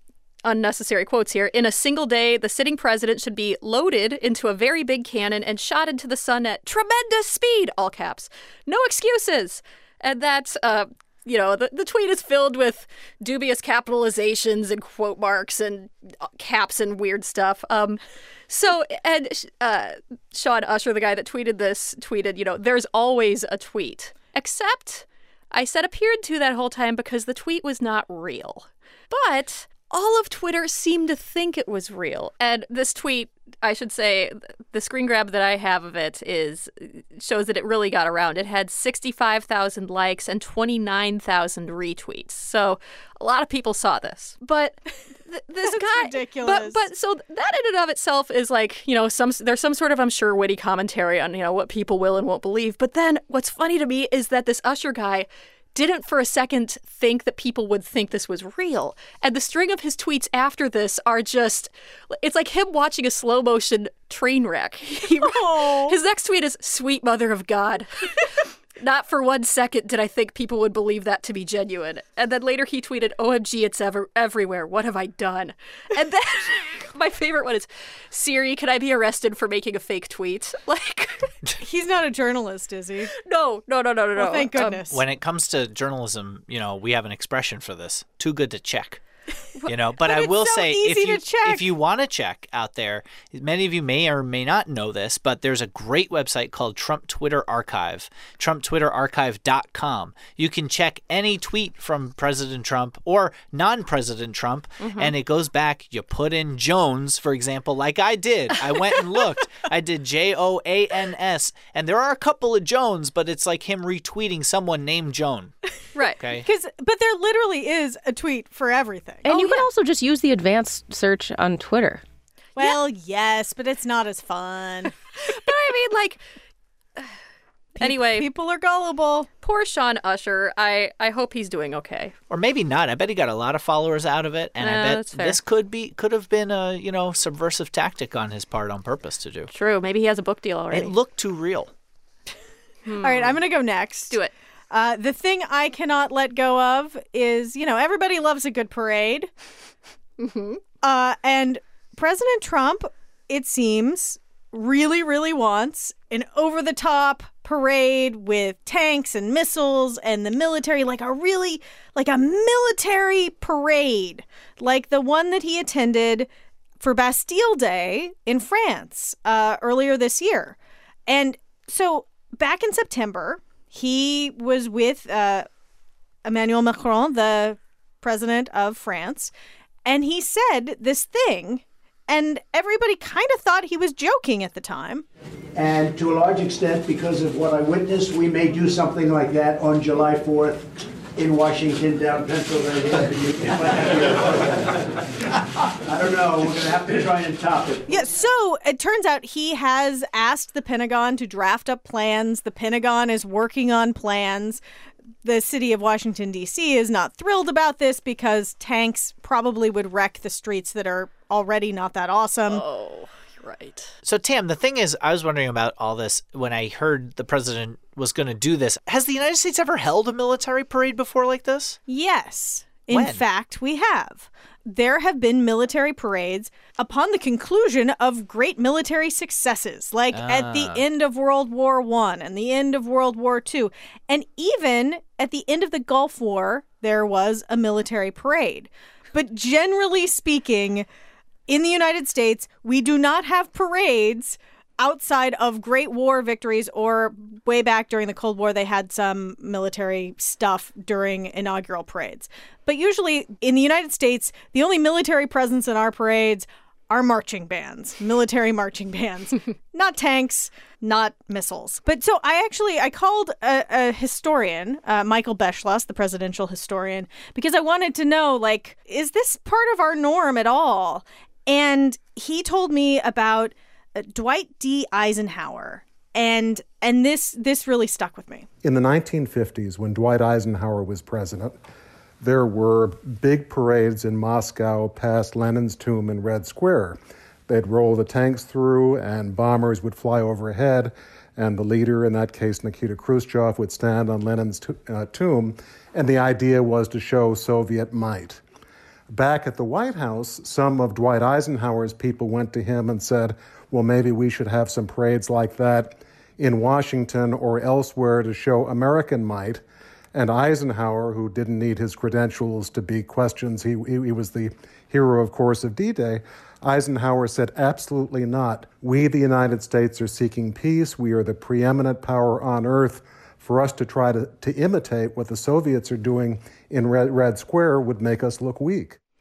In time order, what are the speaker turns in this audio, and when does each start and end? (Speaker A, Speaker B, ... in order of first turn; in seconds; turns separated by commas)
Speaker A: 0.4-81.3, Speaker B: 45.6-46.8, Speaker B: 65.1-66.0, Speaker B: 81.6-83.1, Speaker A: 83.2-84.8, Speaker B: 84.2-85.0, Speaker C: 84.9-89.0, Speaker C: 89.7-115.5, Speaker B: 90.0-91.7, Speaker A: 104.8-105.1, Speaker A: 115.9-116.2, Speaker C: 116.2-116.5, Speaker B: 116.4-119.6, Speaker D: 119.2-122.0, Speaker A: 119.3-119.6, Speaker B: 122.5-124.9, Speaker A: 125.2-126.2, Speaker B: 127.8-129.3, Speaker A: 127.8-128.3, Speaker A: 129.4-132.1, Speaker C: 132.3-139.5, Speaker A: 134.6-135.4, Speaker A: 139.5-140.9, Speaker C: 140.7-141.7, Speaker A: 142.8-143.4, Speaker B: 143.0-144.2, Speaker B: 144.7-149.3, Speaker A: 150.2-150.6, Speaker B: 150.8-166.3, Speaker B: 166.8-175.5, Speaker B: 176.2-179.3, Speaker B: 179.8-185.0, Speaker E: 185.5-194.8, Speaker E: 195.8-197.9, Speaker B: 197.9-204.6, Speaker B: 205.2-212.6, Speaker A: 212.5-213.9, Speaker C: 214.0-221.8, Speaker B: 221.9-240.9, Speaker C: 222.9-223.2, Speaker C: 230.1-230.8, Speaker B: 241.5-278.5, Speaker F: 278.6-281.5, Speaker F: 282.2-298.4, Speaker F: 299.1-309.6, Speaker F: 310.1-329.0